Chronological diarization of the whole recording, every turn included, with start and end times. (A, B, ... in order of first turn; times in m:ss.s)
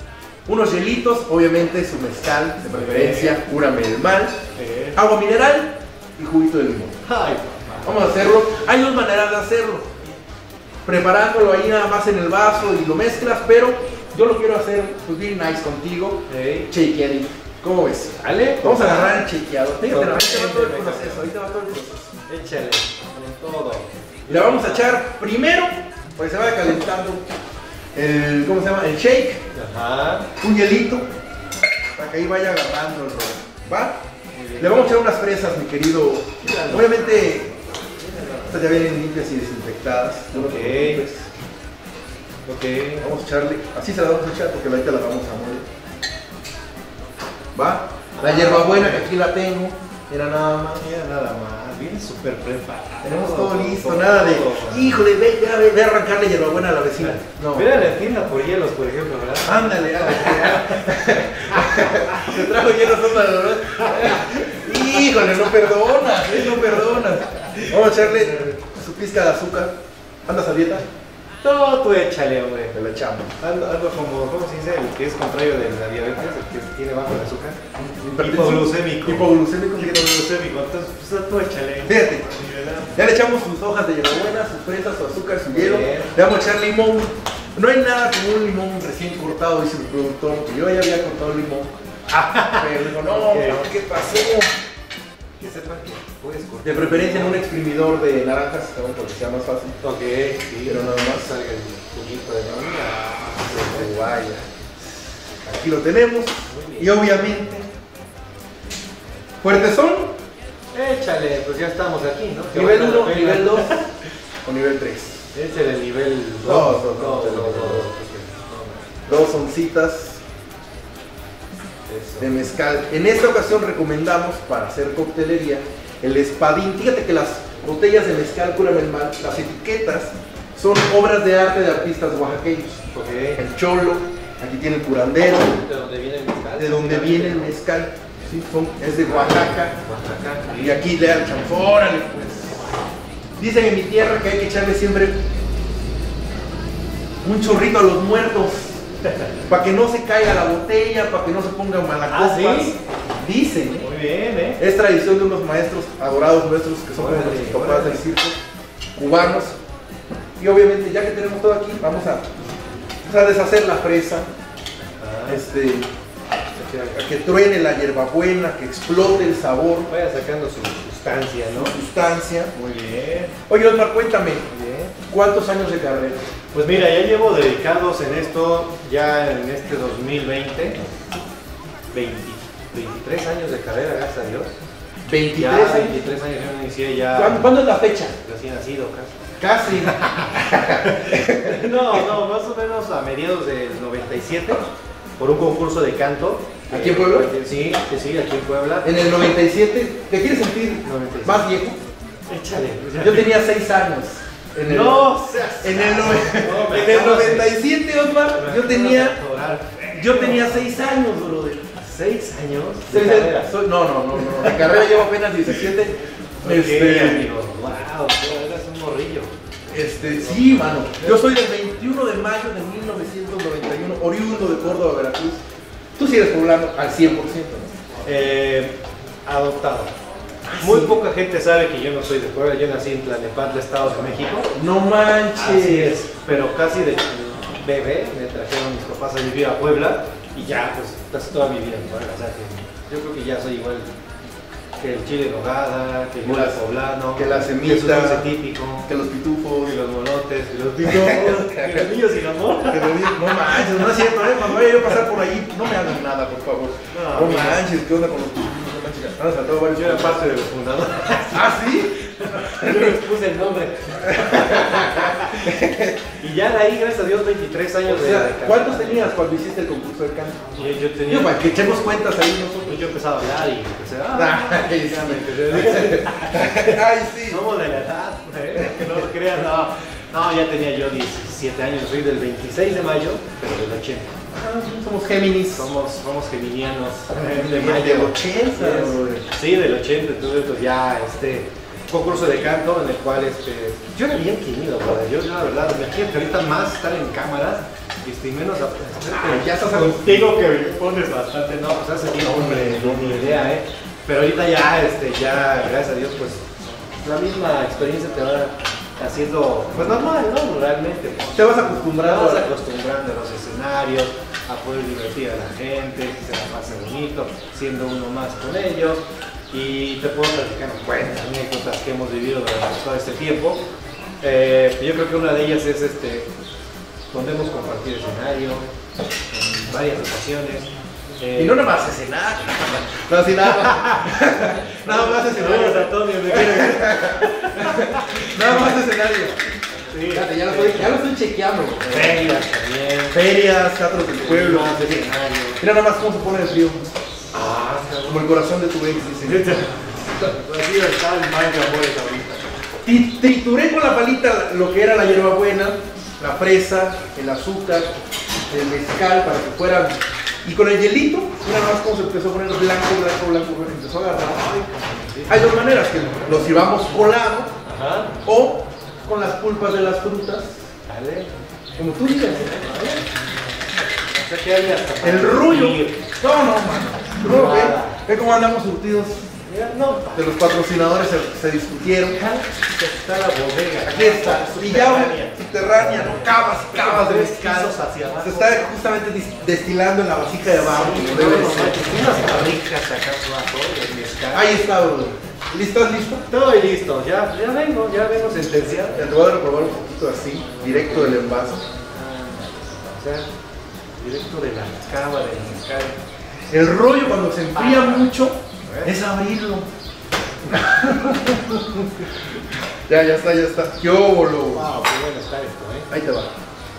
0:00.5-0:04.4 A
0:02.7-0:03.4 B
0:04.6-0:05.0 B
0:05.0-0:07.0 A
0:07.0-0:08.1 B
0:07.8-0:10.0 A
0:10.9-0:22.1 A
0:16.3-0:16.7 B
0:18.2-0:19.2 B
0:19.9-0:21.2 B
0:22.3-0:25.0 B
0:24.3-0:27.3 A
0:28.0-0:29.4 A
0:29.5-0:30.3 B
0:30.4-0:31.1 A
0:31.9-0:34.0 A
0:34.4-0:35.0 B
0:34.6-0:37.5 A
0:36.4-0:38.8 B
0:38.5-0:41.3 A
0:40.3-0:41.0 B
0:42.5-0:43.1 B
0:43.0-0:45.7 A
0:47.6-0:50.8 A
0:48.2-0:49.1 B
0:50.8-0:54.9 B
0:53.0-0:57.7 A
0:57.0-1:02.6 B
0:59.4-1:09.7 A
1:03.7-1:04.5 B
1:06.3-1:08.4 B
1:10.3-1:10.9 A
1:11.4-1:12.7 B
1:12.7-1:13.3 A
1:13.4-1:17.6 B
1:17.8-1:20.2 A
1:18.2-1:23.0 B
1:21.9-1:22.3 A
1:22.9-1:31.7 A
1:25.5-1:26.1 B
1:32.1-1:33.7 B
1:32.6-1:34.5 A
1:35.4-1:37.4 B
1:36.6-1:39.8 A
1:39.8-1:44.0 B
1:40.6-1:41.3 A
1:43.5-1:44.4 A
1:45.4-1:47.7 A
1:46.5-1:47.5 B
1:49.4-1:50.1 A
1:50.7-1:53.9 B
1:52.5-1:53.8 A
1:54.4-1:55.3 A
1:55.3-1:58.9 B
1:56.4-1:57.9 A
1:59.1-2:00.2 A
2:01.9-2:02.3 B
2:02.2-2:12.8 A
2:12.9-2:13.4 B
2:13.4-2:15.6 A
2:15.5-2:17.6 B
2:16.6-2:19.8 A
2:19.0-2:20.7 B
2:20.6-2:22.7 A
2:23.4-2:25.2 A
2:27.2-2:28.8 A
2:29.5-2:33.9 A
2:32.1-2:32.7 B
2:33.8-2:34.6 B
2:34.6-2:38.4 A
2:36.9-2:38.0 B
2:39.0-2:39.6 A
2:40.4-2:42.3 A
2:43.0-2:44.3 A
2:45.0-2:45.4 B
2:45.3-2:45.9 A
2:46.6-2:47.0 B
2:47.0-2:49.9 A
2:49.9-2:51.8 B
2:51.5-2:52.5 A
2:52.6-2:53.3 B
2:53.5-2:54.5 A
2:54.5-2:54.9 B
2:55.1-2:56.2 A
2:56.5-3:00.8 B
3:01.9-3:04.5 B
3:05.1-3:06.0 A
3:05.4-3:07.5 B
3:07.2-3:08.2 A
3:08.2-3:09.1 B
3:09.4-3:12.0 A
3:10.0-3:14.6 B
3:15.2-3:18.9 B
3:16.7-3:17.3 A
3:18.8-3:21.8 A
3:20.8-3:21.4 B
3:22.3-3:23.3 B
3:23.0-3:29.2 A
3:24.6-3:27.6 B
3:28.3-3:30.6 B
3:29.9-3:31.7 A
3:31.8-3:33.5 B
3:32.9-3:37.3 A
3:36.4-3:39.3 B
3:39.7-3:45.4 A
3:40.1-3:41.2 B
3:46.0-3:47.7 A
3:48.0-3:48.8 B
3:49.3-3:49.9 B
3:50.4-3:51.0 A
3:50.6-3:54.5 B
3:54.6-3:56.0 A
3:55.4-4:03.9 B
4:04.8-4:08.9 B
4:06.2-4:06.6 A
4:07.1-4:08.3 A
4:08.9-4:09.8 A
4:09.6-4:14.4 B
4:10.8-4:11.9 A
4:12.7-4:20.3 A
4:16.9-4:17.6 B
4:19.7-4:25.5 B
4:21.3-4:23.0 A
4:24.0-4:26.1 A
4:26.2-4:29.1 B
4:27.9-4:30.5 A
4:30.6-4:31.4 B
4:31.1-4:32.8 A
4:32.7-4:44.2 B
4:34.1-4:37.4 A
4:38.6-4:38.8 A
4:44.3-4:45.7 A
4:45.5-5:06.4 B
4:47.3-4:49.3 A
4:59.1-5:00.3 A
5:02.2-5:03.4 A
5:07.0-5:23.6 B
5:11.4-5:12.5 A
5:24.2-5:26.3 B
5:27.1-5:28.6 B
5:29.3-5:30.7 B
5:31.2-5:31.6 B
5:31.4-5:39.4 A
5:33.4-5:38.8 B
5:39.9-5:41.0 B
5:40.1-5:42.3 A
5:41.9-5:43.2 B
5:43.1-5:45.1 A
5:44.2-5:45.6 B
5:45.6-5:46.8 A
5:47.3-5:48.2 B
5:48.1-5:49.6 A
5:49.2-5:52.4 B
5:52.8-5:57.9 A
5:58.5-6:04.4 A
6:04.4-6:05.4 B
6:05.3-6:07.5 A
6:07.6-6:08.1 B
6:08.2-6:10.6 A
6:10.9-6:11.3 B
6:11.8-6:13.0 A
6:14.1-6:16.0 B
6:15.0-6:19.3 A
6:17.3-6:18.0 B
6:19.5-6:20.3 B
6:20.2-6:22.2 A
6:22.2-6:28.7 B
6:23.8-6:31.9 A
6:30.7-6:34.5 B
6:34.3-6:36.2 A
6:36.3-6:39.1 B
6:38.9-6:41.6 A
6:40.6-6:43.3 B
6:44.0-6:46.0 B
6:46.5-6:49.7 A
6:47.6-6:48.1 B
6:48.7-6:48.9 B
6:50.5-6:51.7 A
6:52.9-6:54.6 A
6:54.5-6:55.9 B
6:55.9-6:56.3 A